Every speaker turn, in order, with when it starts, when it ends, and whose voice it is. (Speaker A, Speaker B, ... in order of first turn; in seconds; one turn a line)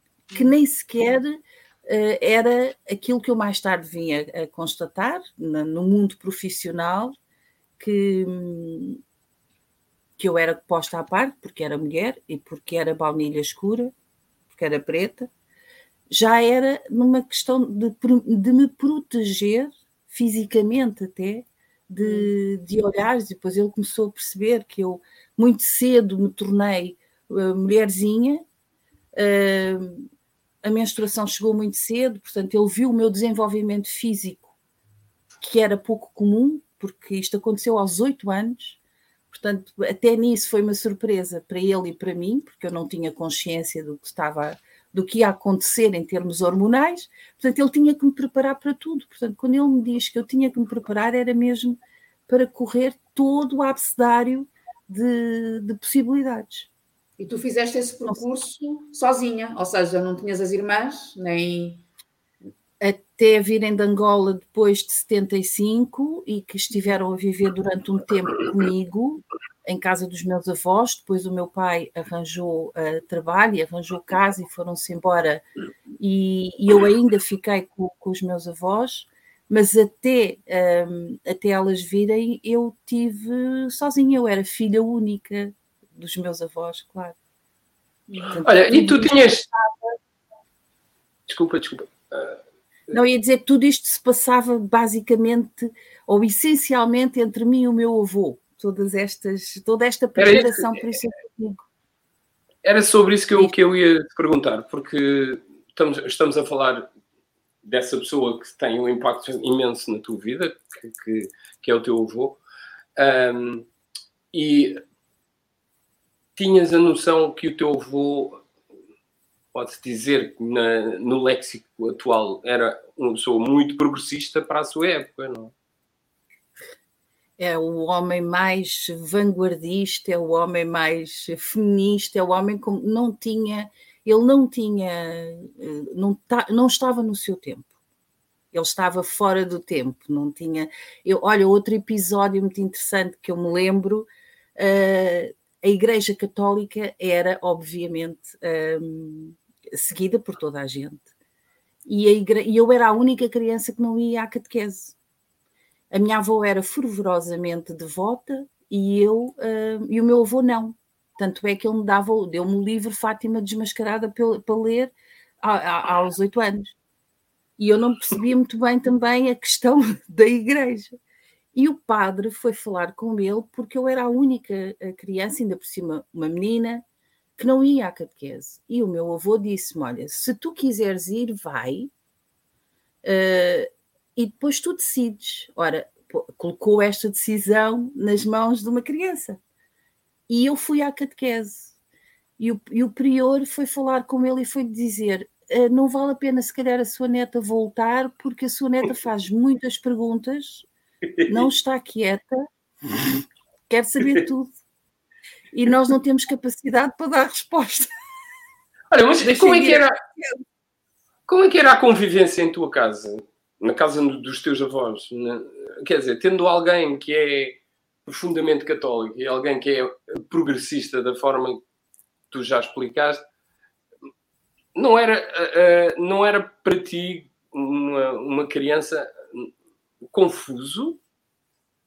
Speaker A: 0.3-7.2
Speaker A: 7.8-9.0
Speaker A: 10.2-13.9
Speaker A: 14.5-15.3
Speaker A: 16.1-28.4
Speaker B: 22.0-22.3
Speaker A: 29.2-30.1
Speaker A: 30.6-34.5
Speaker A: 35.4-38.8
Speaker A: 39.3-56.7
Speaker B: 57.2-61.9
Speaker A: 62.8-75.4
Speaker A: 76.0-87.2
Speaker A: 88.2-90.0
Speaker C: 88.3-89.5
Speaker C: 91.3-92.4
Speaker A: 92.9-101.7
Speaker C: 100.2-100.8
Speaker C: 102.6-106.9
Speaker C: 107.6-112.4
Speaker C: 113.0-113.7
Speaker C: 114.3-114.8
Speaker C: 116.4-118.4
Speaker C: 119.5-125.5
Speaker A: 127.4-137.7
Speaker A: 138.5-151.1
Speaker A: 151.9-154.9
Speaker A: 155.9-166.7
Speaker A: 167.6-171.0
Speaker A: 171.6-176.8
Speaker A: 177.4-181.9
Speaker A: 183.0-189.4
Speaker A: 190.3-191.7
Speaker A: 192.4-200.7
Speaker C: 201.2-201.5
Speaker A: 201.3-204.6
Speaker A: 205.5-207.9
Speaker C: 208.9-210.0
Speaker A: 209.3-210.4
Speaker C: 211.3-221.6
Speaker C: 222.3-223.2
Speaker C: 224.8-229.5
Speaker C: 230.1-231.0